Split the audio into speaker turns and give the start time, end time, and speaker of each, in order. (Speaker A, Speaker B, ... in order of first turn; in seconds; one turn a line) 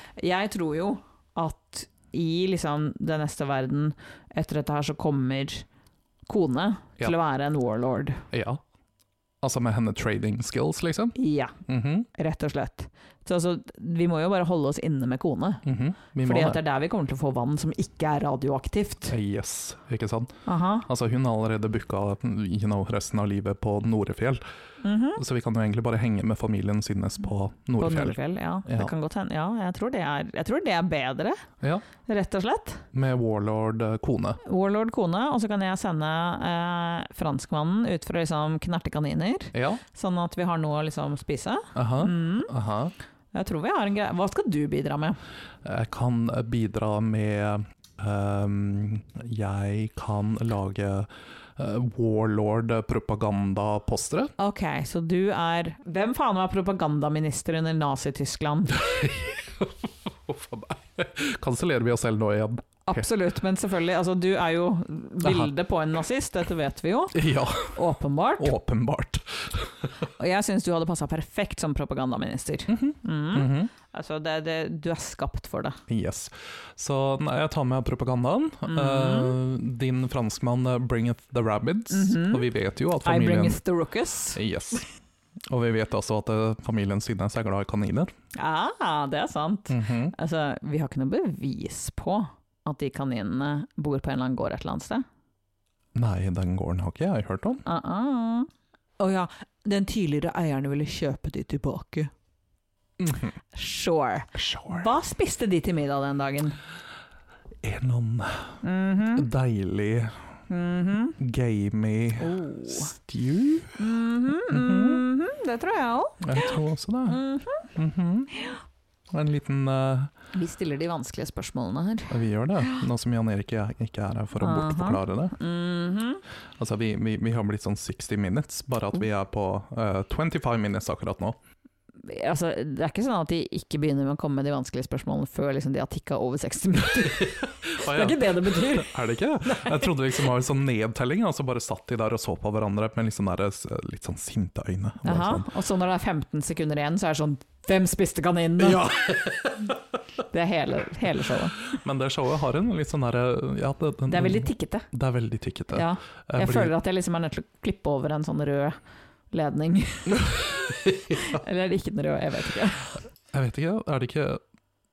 Speaker A: 0.2-5.7
Speaker A: 6.3-8.2
Speaker B: 8.3-8.6
Speaker B: 9.4-11.2
Speaker A: 11.2-11.6
Speaker B: 11.7-12.1
Speaker A: 12.1-15.6
Speaker B: 15.7-16.6
Speaker A: 16.2-19.1
Speaker B: 19.1-20.4
Speaker A: 20.5-20.9
Speaker B: 20.9-24.4
Speaker A: 24.8-25.2
Speaker B: 25.2-28.9
Speaker A: 27.8-31.4
Speaker A: 32.0-32.9
Speaker B: 32.9-34.4
Speaker A: 34.4-42.5
Speaker B: 39.5-39.8
Speaker B: 41.8-42.9
Speaker A: 43.3-45.2
Speaker B: 45.6-54.3
Speaker A: 54.4-58.8
Speaker B: 58.7-63.1
Speaker A: 62.9-68.5
Speaker B: 65.2-65.5
Speaker B: 67.1-67.8
Speaker B: 68.4-69.9
Speaker A: 70.2-75.8
Speaker B: 72.7-73.7
Speaker B: 75.9-83.6
Speaker A: 78.7-79.4
Speaker A: 81.9-82.5
Speaker A: 83.0-84.4
Speaker B: 84.3-84.8
Speaker B: 85.5-88.1
Speaker A: 88.4-95.0
Speaker B: 89.7-90.1
Speaker B: 96.0-97.6
Speaker A: 97.7-102.1
Speaker B: 103.0-103.3
Speaker A: 103.5-106.6
Speaker B: 104.4-104.9
Speaker B: 107.6-108.6
Speaker A: 108.6-109.3
Speaker B: 109.2-110.2
Speaker A: 110.5-111.2
Speaker B: 111.2-113.8
Speaker A: 112.2-112.9
Speaker A: 113.8-117.7
Speaker B: 114.5-115.0
Speaker B: 116.2-117.2
Speaker B: 117.8-118.3
Speaker B: 119.1-120.1
Speaker A: 120.3-122.8
Speaker B: 122.1-125.4
Speaker A: 124.4-126.2
Speaker B: 126.6-131.4
Speaker A: 132.0-139.9
Speaker B: 137.1-145.5
Speaker A: 145.0-149.0
Speaker B: 148.6-149.7
Speaker A: 150.3-151.6
Speaker B: 151.7-156.7
Speaker A: 154.1-154.9
Speaker A: 155.7-158.8
Speaker A: 159.3-163.0
Speaker B: 160.8-161.2
Speaker B: 163.3-164.4